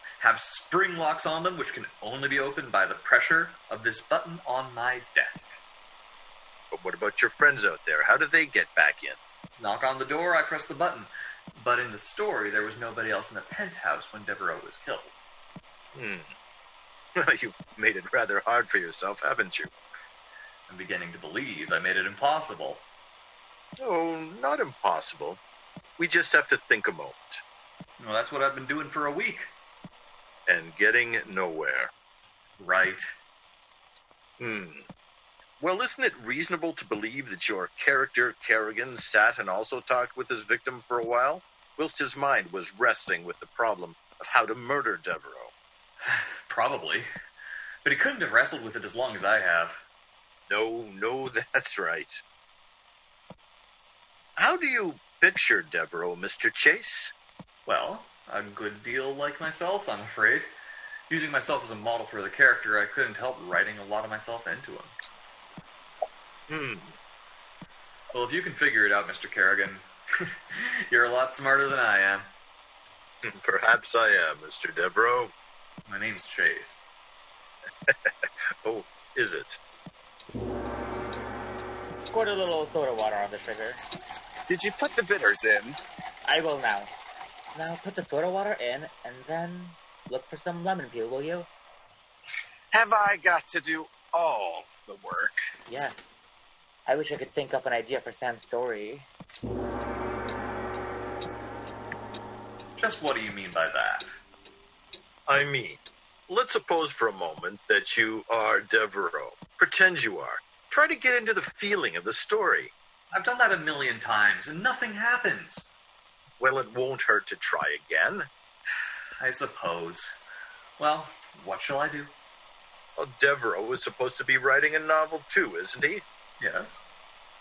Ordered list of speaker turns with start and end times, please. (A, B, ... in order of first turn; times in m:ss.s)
0:00.2-0:05.5 A
0:06.7-0:09.2 B
0:09.6-0:15.1 A
0:16.0-0:16.3 B
0:17.2-0:19.7 B
0:20.7-0:22.8 A
0:23.8-0:25.4 B
0:26.0-0:27.4 B
0:28.0-0:29.5 A
0:30.5-0:31.9 B
0:32.6-0:33.0 A
0:34.4-0:34.9 B
0:35.6-0:45.5 B
0:46.0-0:47.1 A
0:47.8-0:49.8 A
0:50.5-0:52.2 B
0:54.4-0:57.1 B
0:57.7-1:00.5 A
1:01.1-1:05.0 A
1:06.5-1:07.0 B
1:08.1-1:12.3 A
1:13.2-1:15.3 B
1:15.9-1:16.8 A
1:17.9-1:18.1 B
1:18.6-1:19.6 B
1:22.1-1:23.8 C
1:24.5-1:25.8 D
1:26.3-1:26.9 C
1:27.5-1:31.5 C
1:32.7-1:35.4 D
1:35.7-1:36.1 C
1:36.9-1:39.1 C
1:42.8-1:44.1 A
1:45.3-1:52.7 B
1:53.1-1:55.7 A
1:56.4-1:58.3 B
1:59.2-2:00.2 A
2:00.8-2:02.1 A
2:03.0-2:06.0 B
2:06.4-2:06.8 A